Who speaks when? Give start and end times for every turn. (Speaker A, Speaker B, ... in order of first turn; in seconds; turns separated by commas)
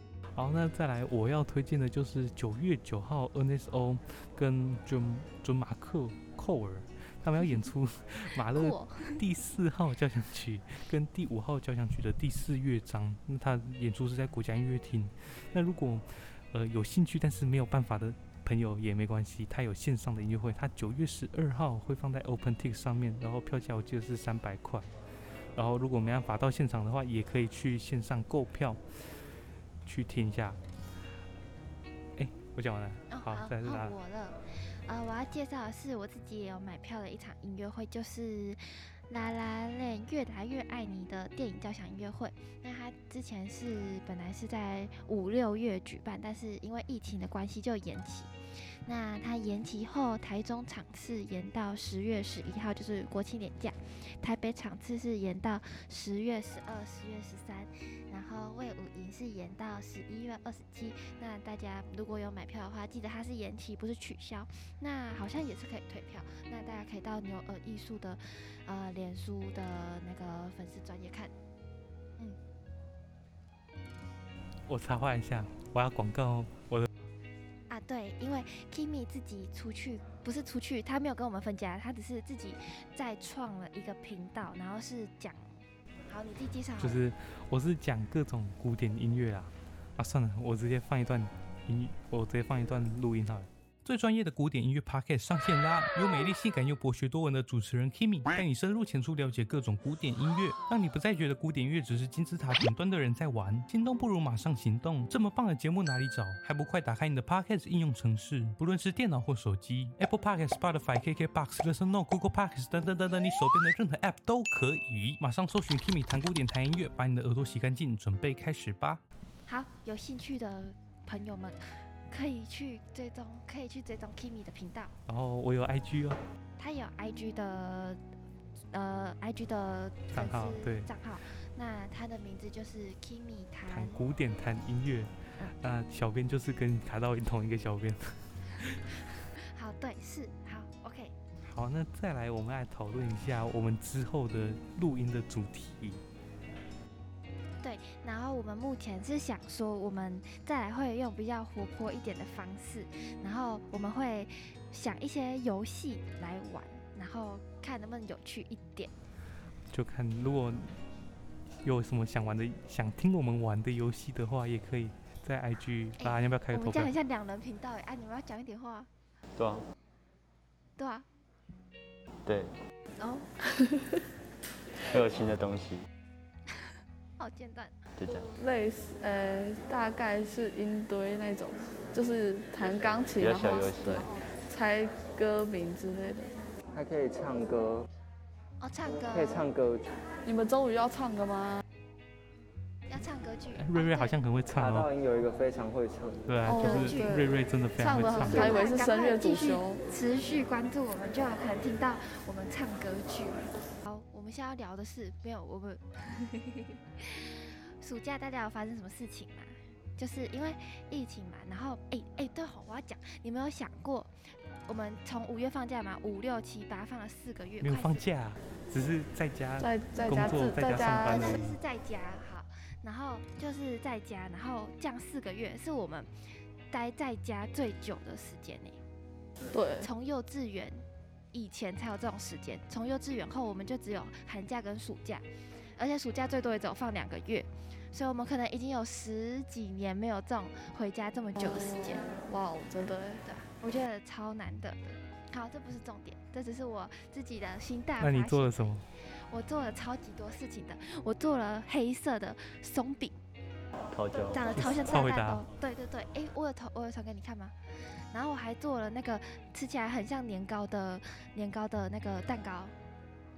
Speaker A: 0.3-24.9, Speaker B: 8.4-9.2, Speaker A: 25.6-28.8, Speaker A: 29.9-30.6, Speaker A: 32.2-34.0, Speaker B: 33.1-48.3, Speaker B: 48.8-71.3, Speaker A: 74.7-76.9, Speaker B: 77.7-87.0, Speaker A: 86.8-119.0, Speaker B: 119.5-124.9, Speaker A: 125.1-126.2, Speaker B: 126.6-128.0, Speaker B: 128.7-134.0, Speaker A: 130.1-130.9, Speaker A: 133.7-139.1, Speaker B: 139.5-141.2, Speaker A: 141.4-146.0, Speaker B: 147.6-158.9, Speaker A: 159.7-160.8, Speaker A: 161.6-166.9, Speaker B: 166.0-168.9, Speaker C: 169.4-169.7, Speaker B: 170.8-171.1, Speaker C: 172.3-172.6, Speaker B: 173.0-173.3, Speaker C: 174.8-175.9, Speaker B: 176.6-177.8, Speaker C: 178.0-178.3, Speaker D: 178.3-186.3, Speaker C: 183.2-184.1, Speaker E: 186.7-187.9, Speaker B: 188.6-189.5, Speaker E: 189.0-190.0, Speaker D: 190.2-191.6, Speaker B: 192.9-194.2, Speaker A: 193.6-194.9, Speaker E: 194.6-196.3, Speaker A: 196.3-198.6, Speaker D: 196.5-199.8, Speaker B: 196.5-197.2, Speaker E: 198.1-198.6, Speaker B: 198.2-214.1, Speaker B: 214.7-218.0, Speaker A: 217.6-221.6, Speaker D: 219.6-221.4, Speaker B: 221.1-226.1, Speaker B: 226.7-228.8, Speaker D: 229.5-229.9, Speaker B: 229.8-242.2, Speaker D: 241.4-243.2, Speaker B: 243.2-248.6, Speaker A: 248.0-248.9, Speaker B: 249.3-253.2, Speaker C: 253.9-254.5, Speaker B: 254.3-257.5, Speaker A: 254.5-255.5, Speaker B: 258.1-262.8